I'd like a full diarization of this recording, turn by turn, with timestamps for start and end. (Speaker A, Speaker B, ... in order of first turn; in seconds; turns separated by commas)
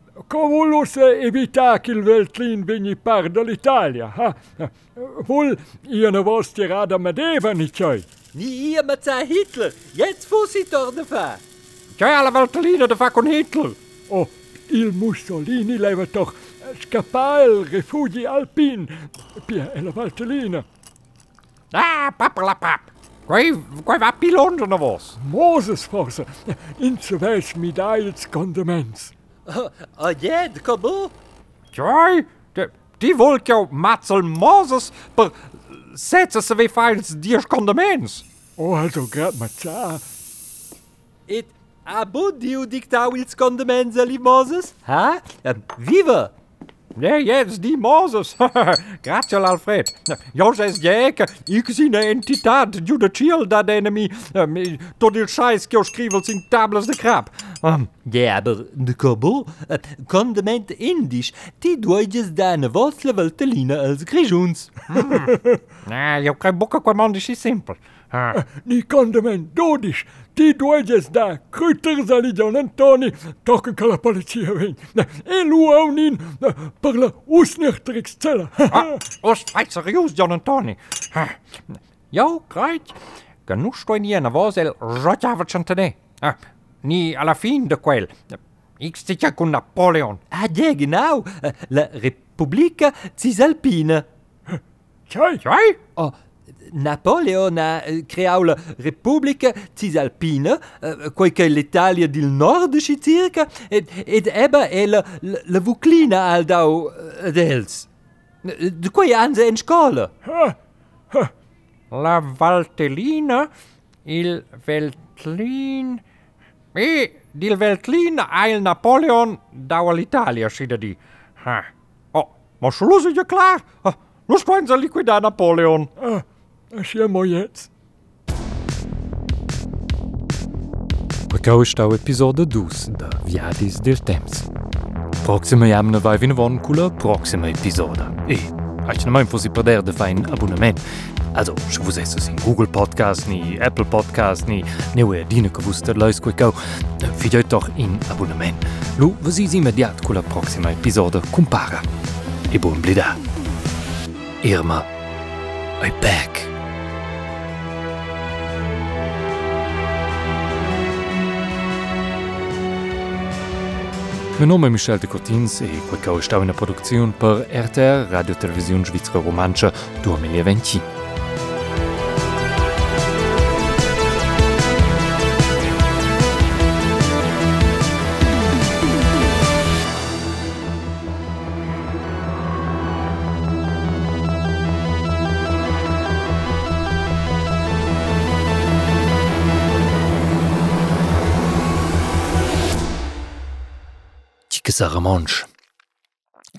Speaker A: 0.2-8.1, Speaker B: 8.3-11.4, Speaker C: 11.9-13.8, Speaker A: 14.1-20.6, Speaker C: 21.7-25.2, Speaker A: 25.2-29.1, Speaker B: 29.4-31.1, Speaker C: 31.7-38.2, Speaker A: 38.6-40.0, Speaker B: 41.3-46.3, Speaker C: 47.0-57.9, Speaker B: 58.0-64.7, Speaker C: 64.9-68.4, Speaker A: 65.1-65.6, Speaker A: 68.3-79.0, Speaker C: 78.7-81.4, Speaker C: 82.1-88.2, Speaker C: 88.8-90.2, Speaker B: 90.3-94.0, Speaker A: 95.1-95.4, Speaker C: 95.4-95.8, Speaker B: 95.9-107.9, Speaker B: 108.4-110.1, Speaker A: 110.3-110.5, Speaker C: 111.9-113.5, Speaker C: 114.0-116.0, Speaker C: 116.7-125.9, Speaker A: 126.0-127.7, Speaker B: 131.3-134.5, Speaker B: 135.2-140.8, Speaker B: 141.3-151.9, Speaker B: 152.5-153.2, Speaker B: 154.4-154.9, Speaker B: 155.8-156.5, Speaker B: 164.4-170.8, Speaker B: 194.5-195.5